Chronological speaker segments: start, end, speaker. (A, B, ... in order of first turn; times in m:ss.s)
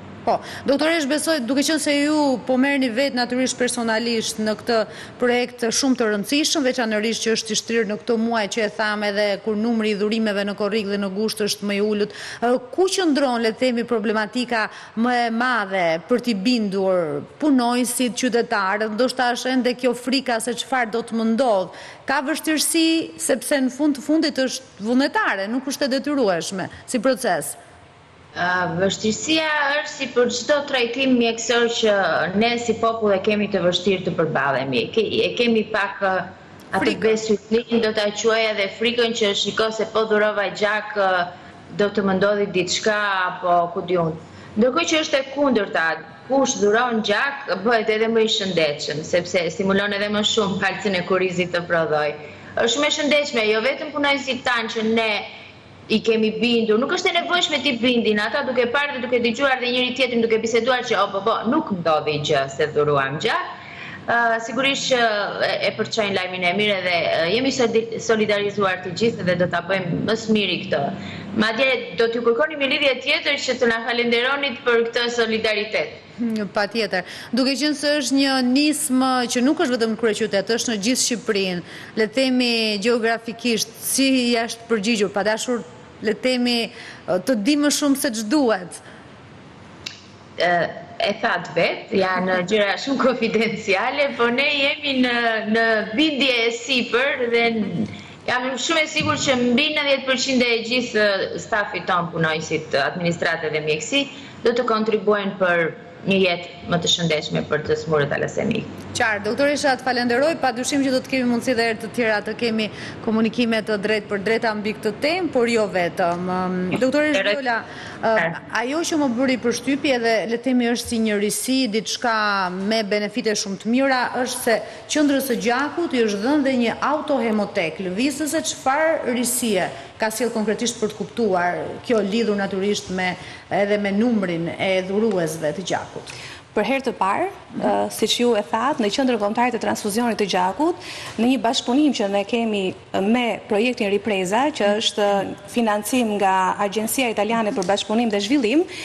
0:00.2-0:27.6 A
0:28.3-0:55.3 B
0:36.8-0:37.2 A
0:55.9-1:03.4 B
1:04.1-1:16.0 B
1:16.2-1:28.8 A
1:30.4-1:48.7 B
1:48.9-2:16.1 A
2:16.5-2:28.7 C